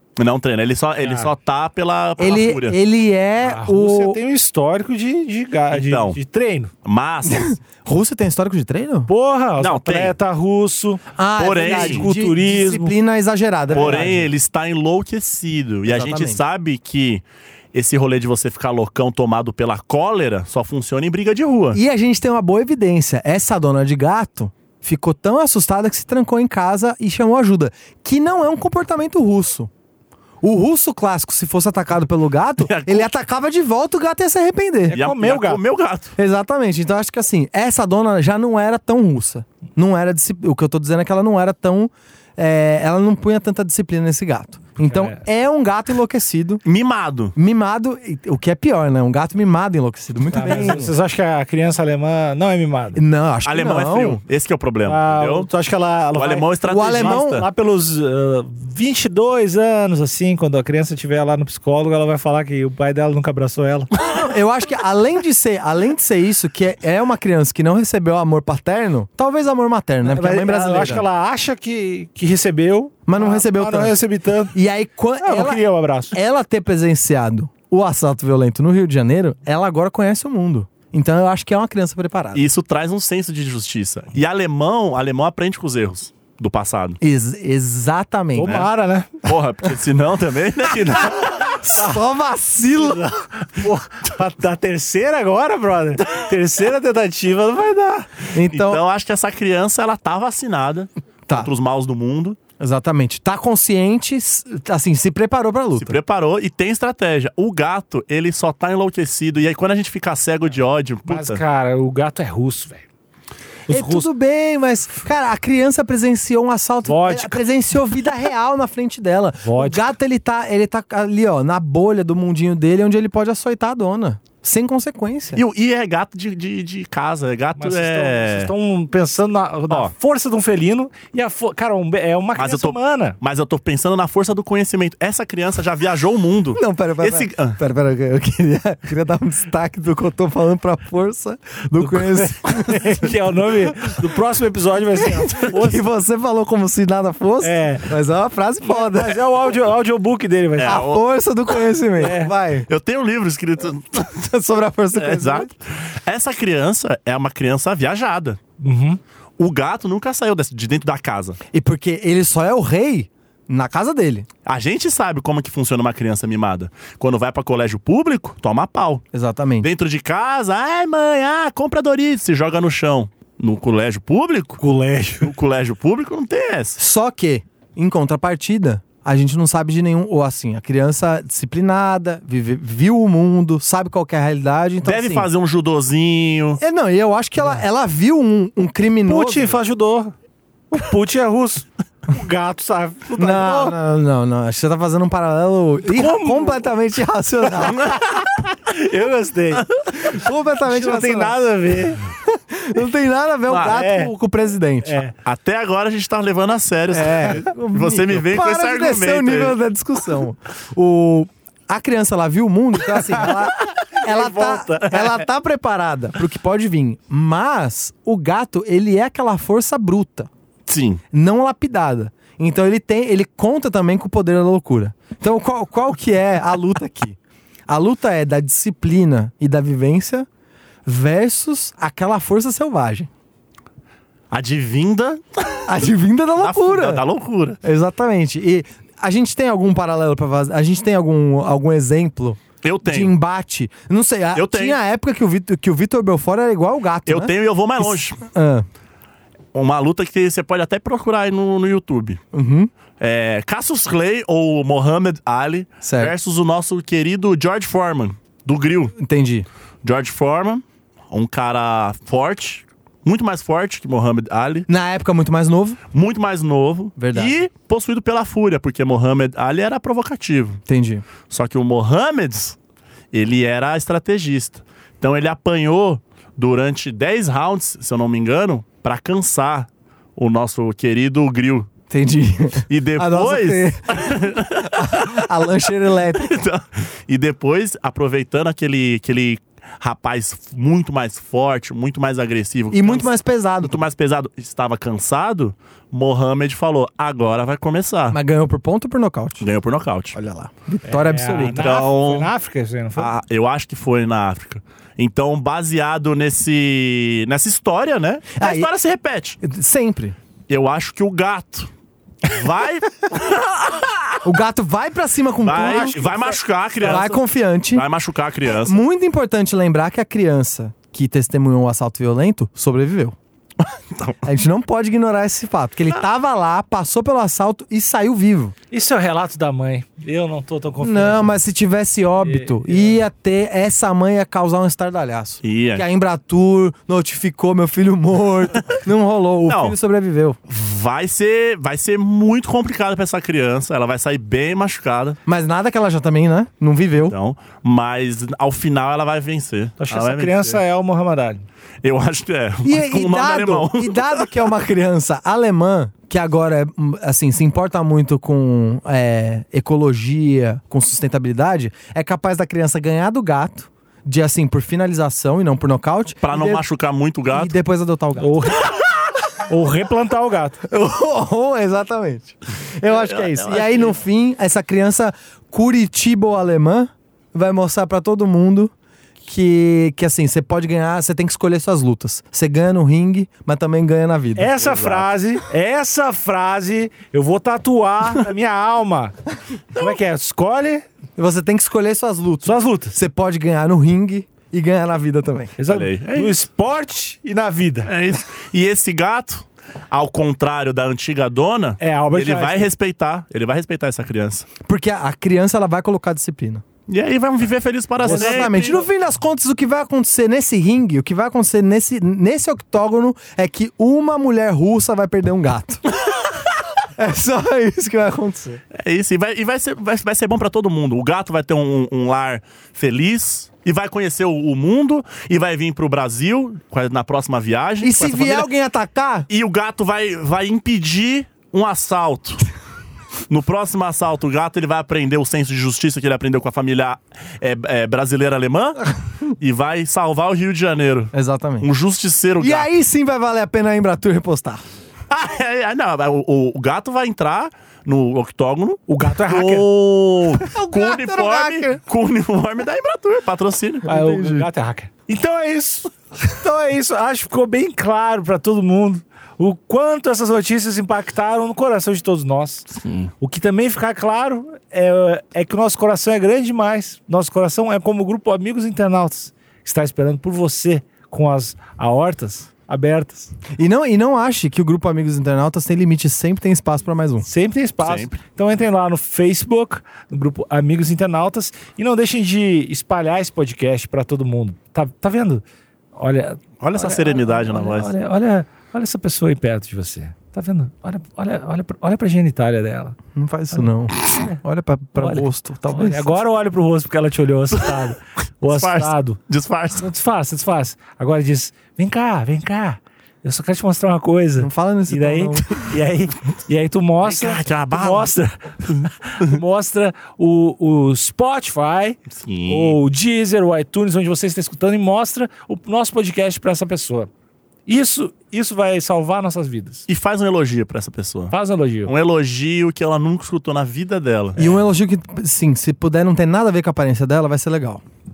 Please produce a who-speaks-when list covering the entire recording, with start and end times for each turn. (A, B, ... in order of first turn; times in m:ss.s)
0:00.2-0:02.8 A
0:01.0-0:01.3 B
0:02.2-0:04.2 C
0:03.4-0:06.7 B
0:05.7-0:06.2 A
0:06.8-0:07.6 A
0:07.3-0:09.1 C
0:09.1-0:11.0 B
0:09.6-0:10.2 A
0:11.2-0:14.2 C
0:11.4-0:12.1 A
0:11.6-0:12.9 B
0:13.7-0:14.3 B
0:13.7-0:21.8 A
0:15.9-0:16.4 C
0:21.7-0:29.7 C
0:30.4-0:35.0 C
0:32.6-0:33.1 A
0:34.9-0:35.6 B
0:34.9-0:36.1 A
0:36.2-0:46.6 C
0:44.8-0:45.2 B
0:46.6-0:47.4 A
0:47.4-0:50.9 C
0:50.3-0:53.0 B
0:53.0-0:54.2 C
0:53.4-0:55.5 A
0:54.8-1:03.9 B
0:56.2-0:57.5 A
0:56.6-0:57.5 C
1:04.0-1:11.1 C
1:10.0-1:14.6 B
1:13.1-1:14.0 C
1:14.5-1:22.4 C
1:15.2-1:16.2 B
1:22.3-1:27.0 A
1:27.0-1:28.6 C
1:28.4-1:29.2 B
1:28.4-1:28.7 A
1:29.2-1:31.6 A
1:31.2-1:33.1 C
1:31.4-1:32.0 B
1:32.8-1:38.1 B
1:38.3-1:38.8 C
1:38.4-1:42.4 A
1:42.6-1:46.0 C
1:45.8-1:51.4 A
1:51.1-1:52.8 B
1:53.7-2:05.4 C
1:53.7-1:54.1 B
1:56.9-1:57.4 B
1:59.4-1:59.9 B
2:05.4-2:08.5 A
2:07.6-2:13.2 B
2:12.4-2:17.6 A
2:16.6-2:23.1 C
2:21.8-2:25.8 B
2:25.0-2:29.2 C
2:27.4-2:27.9 B
2:28.6-2:30.8 B
2:30.6-2:31.0 A
2:30.6-2:32.7 C
2:32.0-2:32.3 B
2:32.7-2:34.3 A
2:34.3-2:35.5 C
2:34.9-2:38.4 A
2:38.6-2:39.0 B
2:39.4-2:41.4 A
2:41.5-2:44.3 C
2:44.4-2:49.0 A
2:49.1-2:49.7 C
2:49.6-2:54.6 A
2:54.6-2:55.3 B
2:55.2-2:56.8 A
2:56.8-3:05.3 C
3:04.8-3:06.6 A
3:06.6-3:09.5 C
3:09.1-3:10.1 B
3:10.7-3:13.8 B
3:13.2-3:17.9 C
3:15.9-3:16.7 B
3:17.6-3:18.2 A
3:18.7-3:19.7 B
3:20.0-3:21.4 C
3:20.6-3:22.0 B
3:22.3-3:25.0 C
3:23.5-3:23.8 A
3:23.6-3:24.1 B
3:24.8-3:25.1 B
3:25.2-3:29.6 A
3:26.9-3:40.3 C
3:27.0-3:27.4 B
3:34.0-3:35.1 B
3:40.7-3:41.0 A
3:41.1-3:50.3 C
3:50.8-3:53.1 C
3:54.3-3:55.7 A
3:55.7-3:57.0 C
3:56.4-3:57.6 A
3:57.6-4:08.7 C
4:02.6-4:03.1 A
4:04.4-4:04.8 A
4:07.1-4:08.2 A
4:09.5-4:12.2 A
4:12.3-4:12.7 C
4:13.0-4:19.0 A
4:15.8-4:16.2 C
4:19.0-4:19.5 C
4:19.8-4:24.7 A
4:24.7-4:25.8 C
4:25.9-4:30.6 A
4:27.0-4:27.4 C
4:30.7-4:31.0 C
4:31.3-4:32.6 A
4:33.1-4:41.7 A
4:41.9-4:46.4 C
4:42.7-4:45.4 A
4:46.0-4:58.2 A
4:52.7-4:53.8 C
4:58.1-4:59.5 C
4:59.4-5:00.2 A
5:00.2-5:01.9 C
5:00.9-5:03.1 B
5:01.6-5:02.3 A
5:03.0-5:09.4 A
5:08.4-5:08.7 C
5:09.4-5:10.2 C
5:10.5-5:11.7 A
5:12.2-5:14.2 A
5:14.2-5:16.0 C
5:15.4-5:17.2 A
5:15.6-5:16.4 B
5:16.8-5:17.8 C
5:17.7-5:18.8 A
5:18.5-5:23.2 C
5:23.9-5:24.2 A
5:24.2-5:28.6 C
5:28.7-5:31.4 B
5:30.8-5:40.4 C
5:32.2-5:33.0 B
5:35.4-5:35.8 A
5:39.5-5:39.8 A
5:40.5-5:45.2 A
5:45.3-5:47.2 C
5:47.1-5:50.6 A
5:49.8-5:51.4 B
5:51.8-5:54.3 A
5:52.6-6:06.6 C
6:06.2-6:07.6 A
6:07.3-6:08.5 C
6:08.2-6:08.8 B
6:09.4-6:10.6 B
6:10.7-6:24.5 C
6:12.9-6:14.0 A
6:24.4-6:29.2 B
6:24.6-6:25.1 A
6:29.7-6:30.9 B
6:31.2-6:35.6 C
6:32.4-6:33.0 B
6:35.6-6:37.9 B
6:35.7-6:36.4 A
6:37.9-6:44.5 A
6:41.8-6:42.7 B
6:44.6-6:46.6 C
6:46.9-6:48.8 A
6:48.0-6:48.6 B
6:48.0-6:55.8 C
6:57.0-6:58.6 C
6:58.7-7:08.5 A
7:07.8-7:09.3 C
7:09.3-7:12.4 A
7:13.3-7:22.7 A
7:21.1-7:21.7 C
7:22.4-7:24.6 C
7:25.1-7:33.9 A
7:28.9-7:29.7 B
7:30.4-7:31.8 C
7:33.9-7:53.3 B
7:33.9-7:34.5 C
7:42.8-7:43.1 A
7:53.6-7:57.3 C
7:57.2-8:05.4 B
7:57.8-7:58.2 A
8:06.0-8:13.0 B
8:06.6-8:07.9 A
8:13.2-8:16.1 C
8:13.5-8:14.4 B
8:15.0-8:19.2 B
8:18.5-8:19.9 A
8:19.8-8:37.1 B
8:24.4-8:25.8 C
8:27.0-8:28.1 A
8:32.1-8:32.8 A
8:37.7-8:39.9 B
8:39.9-8:41.3 A
8:41.3-8:41.9 B
8:41.9-8:44.6 A
8:44.4-8:47.8 C